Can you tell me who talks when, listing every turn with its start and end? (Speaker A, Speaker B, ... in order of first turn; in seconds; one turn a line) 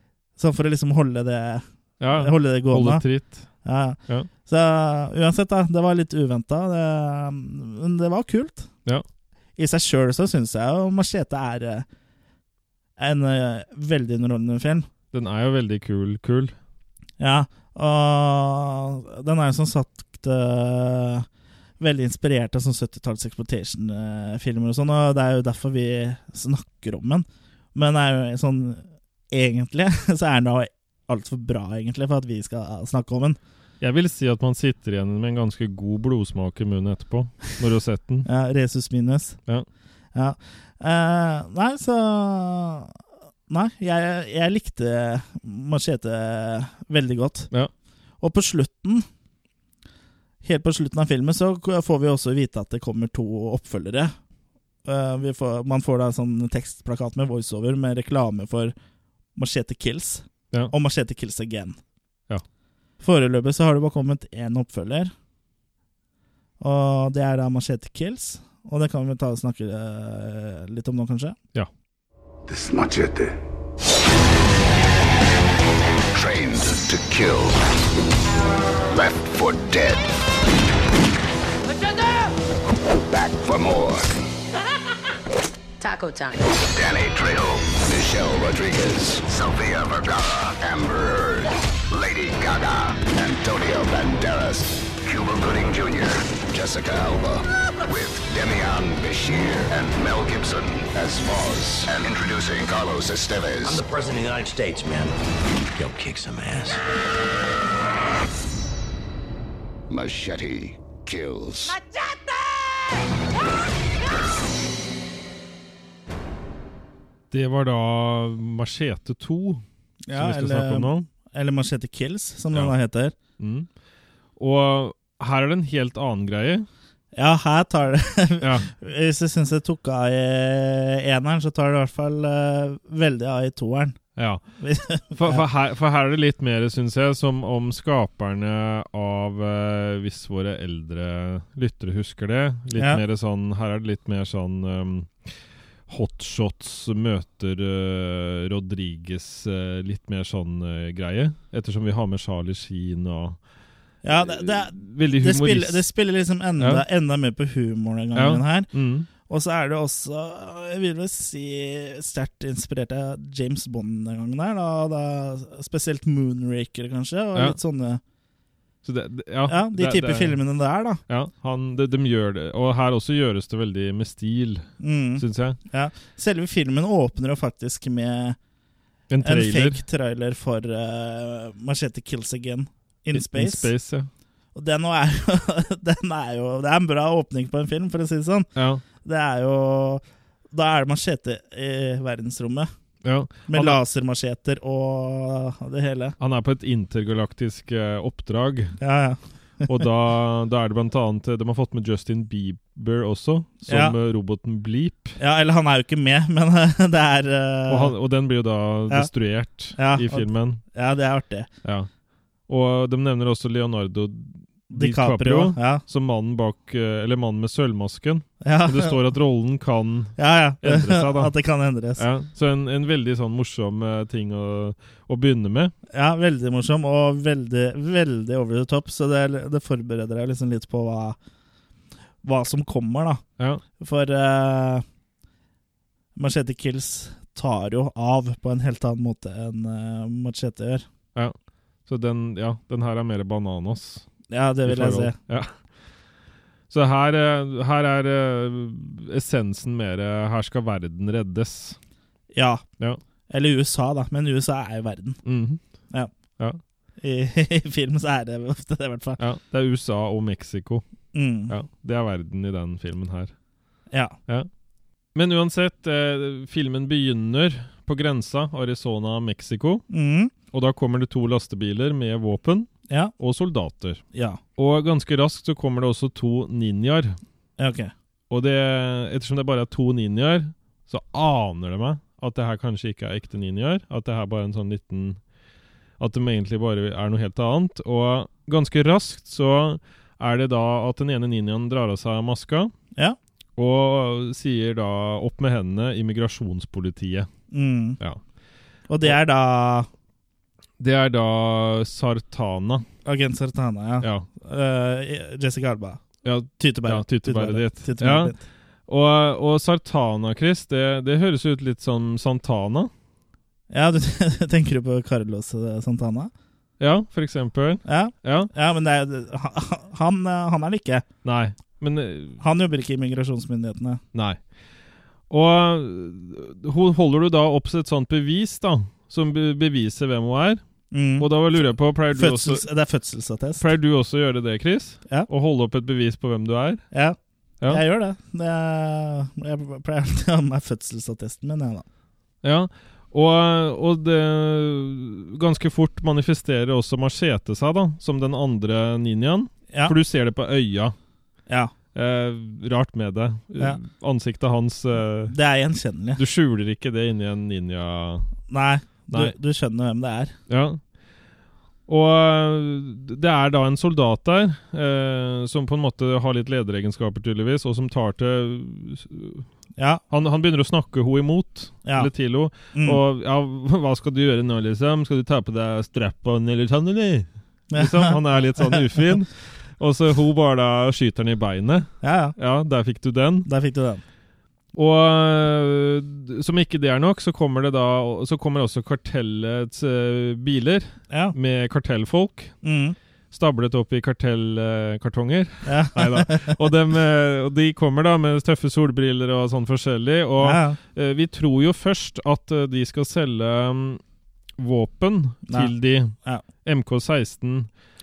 Speaker A: 0.4-3.0
Speaker B: 2.0-3.5
Speaker A: 3.6-8.7
Speaker A: 9.6-11.9
Speaker A: 13.0-14.9
Speaker B: 15.1-16.6
Speaker A: 17.2-21.3
Speaker A: 21.8-33.4
Speaker B: 33.8-38.3
Speaker A: 38.3-39.4
Speaker A: 40.1-43.0
Speaker A: 43.5-47.5
Speaker A: 48.2-49.1
Speaker A: 50.4-54.1
Speaker A: 54.9-58.7
Speaker A: 59.4-61.8
Speaker A: 63.0-65.1
Speaker A: 66.6-71.4
Speaker C: 72.5-73.3
Speaker D: 76.1-77.6
Speaker D: 78.9-80.1
Speaker E: 81.7-82.3
Speaker D: 82.9-84.1
Speaker E: 85.8-86.6
Speaker D: 86.7-103.9
Speaker C: 103.7-105.1
Speaker C: 105.8-106.8
Speaker D: 109.9-111.8
Speaker E: 111.7-112.8
Speaker B: 117.3-121.1
Speaker A: 120.1-123.1
Speaker B: 123.4-123.7
Speaker B: 124.4-126.7
Speaker A: 127.2-134.0
Speaker B: 128.4-128.7
Speaker B: 134.2-134.4
Speaker A: 134.6-135.4
Speaker B: 135.1-145.3
Speaker A: 142.8-143.0
Speaker B: 145.9-153.4
Speaker A: 154.0-158.7
Speaker B: 154.2-155.9
Speaker B: 156.6-156.8
Speaker B: 158.2-159.1
Speaker A: 159.2-168.0
Speaker B: 168.8-170.4
Speaker A: 169.5-171.0
Speaker B: 171.1-175.6
Speaker A: 174.8-178.4
Speaker B: 179.1-179.8
Speaker A: 179.2-183.7
Speaker B: 183.1-184.1
Speaker A: 184.6-188.5
Speaker B: 188.6-188.8
Speaker A: 189.0-192.7
Speaker B: 193.0-193.8
Speaker A: 193.5-196.2
Speaker B: 196.2-198.8
Speaker A: 198.8-199.8
Speaker B: 199.7-205.2
Speaker A: 203.7-204.0
Speaker A: 205.2-207.9
Speaker B: 207.7-210.6
Speaker A: 209.7-211.5
Speaker B: 211.6-211.9
Speaker B: 212.5-221.3
Speaker A: 214.7-215.8
Speaker A: 218.4-219.0
Speaker A: 220.2-222.1
Speaker B: 222.0-225.7
Speaker A: 225.9-231.2
Speaker A: 232.2-233.2
Speaker A: 233.8-234.8
Speaker A: 236.2-240.8
Speaker B: 241.9-244.1
Speaker A: 244.3-245.2
Speaker B: 244.7-245.5
Speaker B: 246.7-251.8
Speaker A: 252.3-252.6
Speaker A: 253.3-255.2
Speaker B: 255.2-255.6
Speaker A: 257.0-259.2
Speaker B: 259.2-260.8
Speaker A: 261.1-261.5
Speaker B: 261.5-263.3
Speaker A: 263.9-264.2
Speaker B: 265.1-269.9
Speaker A: 269.9-270.3
Speaker B: 270.5-274.0
Speaker A: 274.1-274.4
Speaker B: 274.6-277.2
Speaker A: 277.6-277.9
Speaker B: 278.3-285.2
Speaker B: 286.0-292.7
Speaker B: 293.6-297.3
Speaker A: 297.5-298.0
Speaker A: 298.9-299.9
Speaker B: 300.8-302.9
Speaker A: 303.1-306.0
Speaker B: 304.0-304.3
Speaker B: 306.2-308.4
Speaker A: 306.6-308.4
Speaker B: 308.9-312.9
Speaker A: 313.7-316.3
Speaker B: 316.8-318.5
Speaker A: 317.9-321.1
Speaker B: 321.2-322.4
Speaker A: 322.4-324.0
Speaker B: 324.1-324.4
Speaker B: 325.3-330.6
Speaker A: 330.9-331.3
Speaker B: 331.2-332.7
Speaker A: 332.1-333.6
Speaker B: 333.6-336.8
Speaker A: 336.9-341.9
Speaker B: 342.4-350.9
Speaker B: 351.9-355.3
Speaker A: 355.3-356.2
Speaker B: 356.2-358.3
Speaker A: 358.5-360.4
Speaker B: 360.5-360.8
Speaker B: 361.9-369.5
Speaker A: 369.8-370.0
Speaker B: 370.1-383.5
Speaker A: 371.9-372.1
Speaker A: 372.7-373.0
Speaker A: 377.7-379.0
Speaker A: 382.0-382.4
Speaker A: 383.5-384.0
Speaker B: 384.7-392.6
Speaker A: 391.1-391.4
Speaker A: 392.6-393.0
Speaker B: 393.3-404.0
Speaker A: 395.6-396.6
Speaker A: 400.4-400.8
Speaker B: 404.6-407.7
Speaker A: 405.5-406.4